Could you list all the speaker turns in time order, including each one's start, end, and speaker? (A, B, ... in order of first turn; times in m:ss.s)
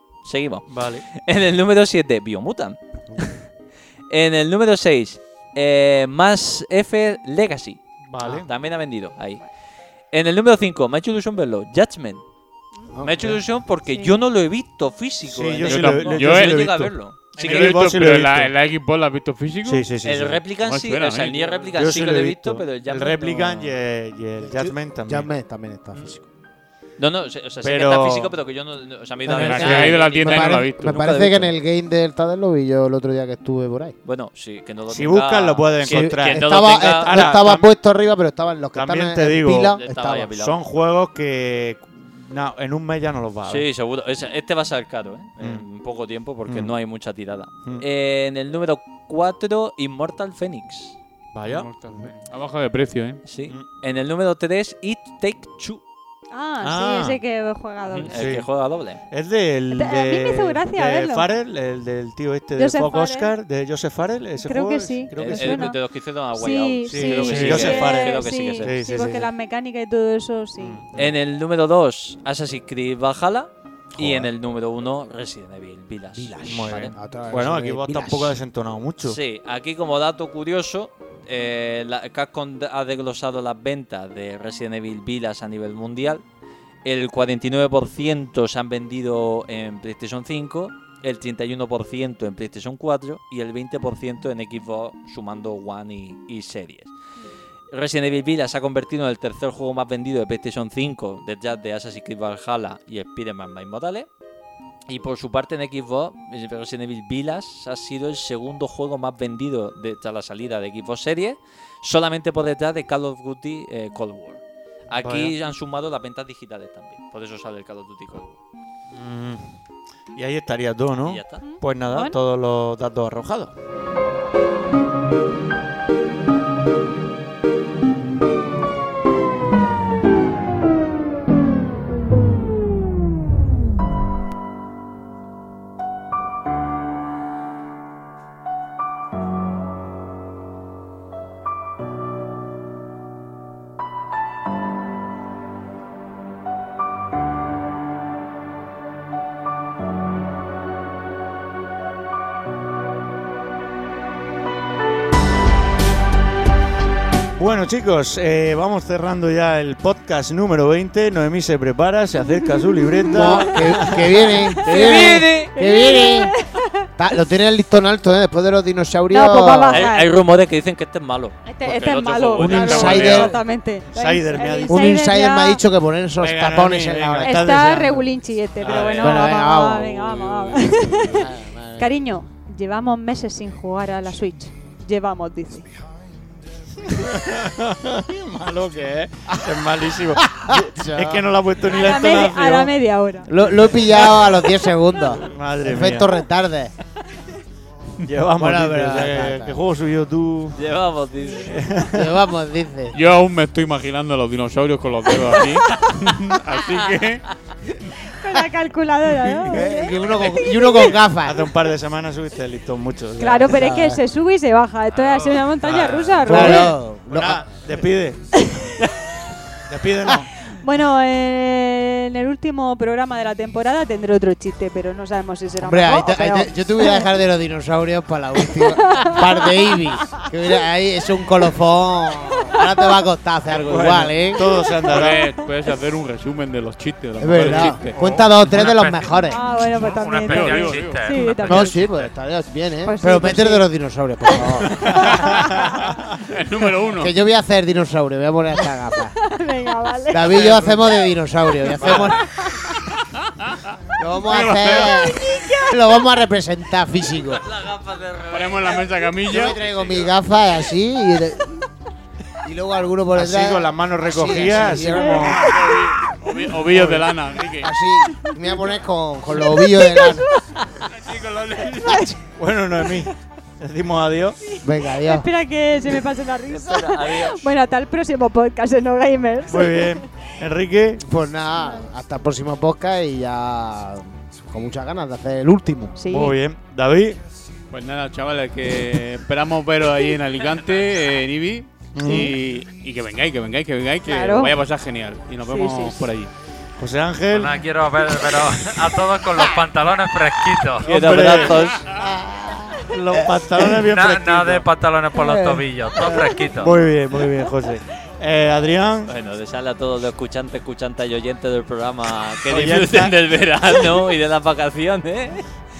0:00.2-0:02.8 A
0:00.7-0:01.0 B
0:04.1-0:09.4 A
0:08.1-0:08.5 B
0:10.1-0:12.2 A
0:12.9-0:13.4 C
0:13.0-0:17.7 A
0:13.9-0:14.1 D
0:15.3-0:18.5 B
0:15.6-0:16.8 E
0:17.4-0:19.8 E
0:19.6-0:20.4 B
0:20.0-0:23.7 A
0:20.6-0:22.0 E
0:21.8-0:25.3 B
0:24.4-0:26.2 C
0:27.0-0:31.4 A
0:27.6-0:28.3 B
0:29.2-0:33.9 C
0:29.3-0:31.5 E
0:29.6-0:29.9 B
0:34.0-0:37.2 A
0:34.9-0:37.7 B
0:35.8-0:40.3 C
0:38.7-0:39.8 B
0:39.7-0:40.6 A
0:40.3-0:43.6 B
0:43.4-0:51.0 A
0:45.4-0:45.6 B
0:46.5-0:46.7 B
0:51.3-0:51.7 B
0:51.5-0:53.2 E
0:53.2-0:55.8 A
0:56.3-0:58.1 D
0:56.6-0:57.2 B
0:57.8-0:59.0 A
0:58.1-0:58.5 B
0:59.0-1:05.7 B
0:59.7-1:01.3 D
1:02.6-1:03.3 D
1:04.4-1:10.8 D
1:05.2-1:08.7 A
1:06.8-1:09.2 B
1:10.6-1:11.1 B
1:10.9-1:16.9 A
1:14.0-1:14.3 B
1:16.1-1:18.4 C
1:16.4-1:19.2 B
1:19.0-1:26.2 A
1:26.8-1:36.9 A
1:37.7-1:44.1 A
1:44.9-1:58.4 A
1:55.0-1:55.3 B
1:58.9-1:59.4 B
2:00.1-2:03.5 B
2:01.0-2:01.4 A
2:01.4-2:02.2 D
2:37.4-2:44.4 B
2:42.3-2:44.0 D
2:43.1-2:46.3 C
2:44.5-2:46.9 D
2:44.6-2:45.5 A
2:47.0-2:49.9 C
2:49.1-2:50.1 D
2:49.7-2:53.3 A
2:51.4-2:55.6 D
2:52.4-2:53.4 C
2:52.6-2:53.4 B
2:53.9-2:54.9 B
2:54.7-2:57.7 C
2:56.2-2:58.1 B
2:57.2-3:05.7 D
2:58.6-2:59.2 B
2:58.6-2:59.1 A
2:59.0-3:00.1 C
3:00.0-3:00.8 E
3:00.9-3:02.0 C
3:06.8-3:12.7 B
3:09.3-3:11.3 C
3:11.6-3:13.4 D
3:13.3-3:16.7 C
3:13.9-3:14.4 B
3:15.2-3:16.1 B
3:18.0-3:20.7 B
3:18.4-3:19.6 C
3:20.6-3:21.6 A
3:21.5-3:22.1 B
3:21.9-3:23.0 C
3:22.9-3:27.2 E
3:28.1-3:30.3 D
3:29.4-3:31.5 C
3:31.2-3:33.7 B
3:33.2-3:36.8 D
3:33.4-3:34.0 C
3:34.9-3:36.3 F
3:36.2-3:37.4 C
3:36.3-3:38.2 B
3:38.4-3:38.8 D
3:39.7-3:40.3 B
3:40.5-3:47.1 D
3:45.6-3:54.5 C
3:48.5-3:50.2 D
3:53.5-3:55.2 B
3:54.9-3:58.3 E
3:57.2-3:59.4 C
3:58.4-4:01.7 F
3:59.3-4:01.8 D
3:59.6-4:01.4 E
4:01.4-4:05.3 C
4:02.8-4:03.7 D
4:04.8-4:07.1 E
4:07.0-4:09.2 C
4:09.2-4:10.6 D
4:10.1-4:12.3 C
4:11.8-4:12.1 B
4:11.9-4:12.8 D
4:14.0-4:17.4 C
4:14.3-4:14.9 E
4:15.2-4:15.8 D
4:17.2-4:20.1 A
4:18.3-4:19.6 E
4:19.2-4:21.7 C
4:22.4-4:25.4 C
4:23.1-4:25.5 B
4:24.7-4:27.7 E
4:26.7-4:30.3 C
4:30.9-4:32.1 E
4:32.4-4:34.4 B
4:34.6-4:35.3 C
4:35.0-4:40.0 D
4:36.5-4:37.5 A
4:39.5-4:41.0 B
4:41.0-4:46.0 C
4:46.0-4:46.4 D
4:46.1-4:47.2 B
4:47.7-4:56.3 E
4:51.9-4:52.3 B
4:54.0-4:54.6 D
4:55.4-4:56.0 D
4:56.8-4:57.6 B
4:57.3-5:01.0 F
5:00.8-5:01.8 A
5:00.8-5:01.7 B
5:01.8-5:03.8 C
5:02.9-5:04.7 B
5:03.9-5:06.7 F
5:05.1-5:06.4 C
5:06.5-5:09.1 B
5:09.1-5:15.4 A
5:12.5-5:13.2 B